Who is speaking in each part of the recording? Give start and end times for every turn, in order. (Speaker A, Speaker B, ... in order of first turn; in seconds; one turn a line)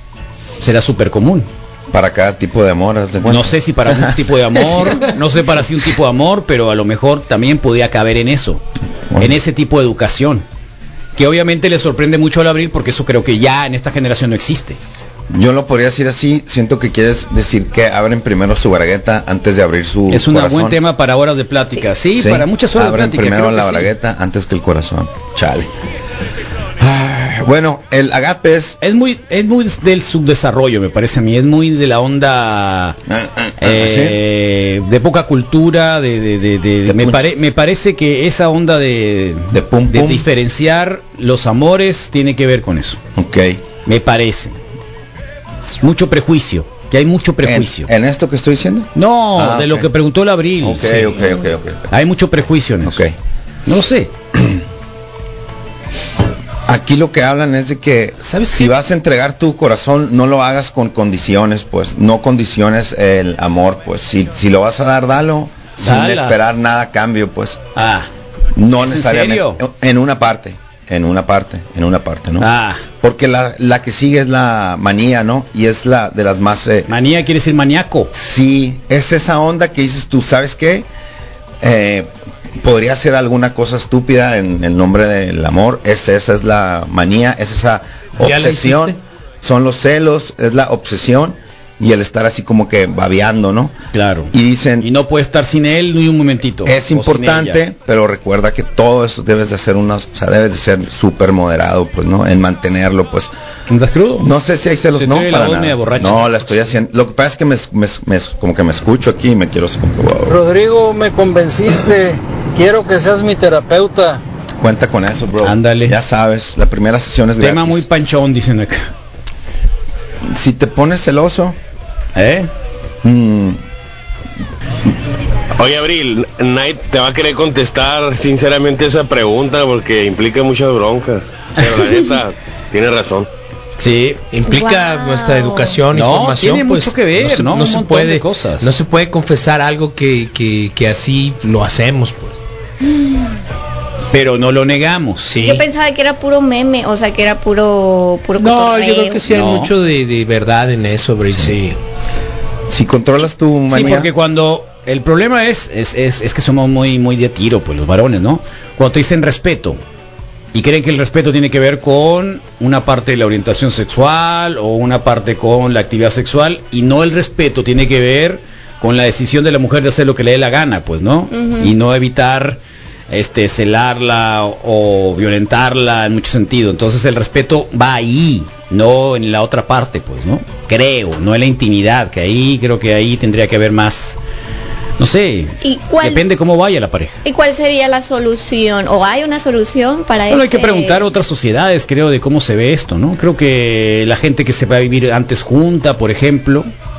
Speaker A: 0.6-1.5
Speaker B: 1.9-5.1
Speaker A: 3.3-8.6
Speaker B: 9.1-9.4
Speaker A: 9.2-10.4
Speaker A: 11.2-14.8
Speaker B: 15.3-20.8
Speaker A: 20.1-23.9
Speaker B: 22.2-25.7
Speaker B: 26.8-28.8
Speaker A: 28.8-33.0
Speaker B: 33.1-34.2
Speaker A: 33.6-43.0
Speaker B: 36.9-37.5
Speaker B: 39.5-40.3
Speaker B: 43.2-43.6
Speaker A: 43.9-44.6
Speaker A: 45.8-47.9
Speaker B: 47.4-49.9
Speaker A: 49.0-51.2
Speaker B: 50.6-51.9
Speaker A: 51.9-53.0
Speaker B: 52.8-53.1
Speaker A: 53.7-54.1
Speaker B: 54.3-54.6
Speaker B: 56.7-67.6
Speaker C: 58.2-58.7
Speaker A: 65.8-66.4
Speaker A: 67.8-68.1
Speaker B: 68.5-72.5
Speaker A: 68.8-69.6
Speaker A: 72.4-72.8
Speaker B: 73.0-76.9
Speaker A: 76.9-78.1
Speaker B: 78.1-80.9
Speaker B: 81.6-93.8
Speaker C: 88.2-89.0
Speaker A: 93.9-97.6
Speaker B: 94.3-94.9
Speaker B: 96.7-103.3
Speaker A: 103.7-104.3
Speaker B: 104.2-110.4
Speaker A: 105.0-106.7
Speaker D: 110.3-114.2
Speaker B: 114.6-117.9
Speaker A: 115.4-116.0
Speaker A: 117.4-118.9
Speaker B: 120.3-121.6
Speaker A: 122.2-122.5
Speaker B: 123.0-123.6
Speaker E: 125.6-133.3
Speaker A: 133.8-134.2
Speaker C: 134.3-142.4
Speaker F: 134.5-135.8
Speaker A: 135.9-138.7
Speaker A: 144.1-145.4
Speaker C: 145.3-145.6
Speaker F: 145.4-149.2
Speaker C: 148.4-151.8
Speaker A: 149.3-149.7
Speaker B: 151.3-151.6
Speaker B: 152.7-154.1
Speaker A: 153.7-159.8
Speaker A: 160.5-184.2
Speaker F: 171.3-171.7
Speaker A: 185.0-187.2
Speaker F: 185.6-186.2
Speaker F: 187.2-191.1
Speaker A: 190.3-196.7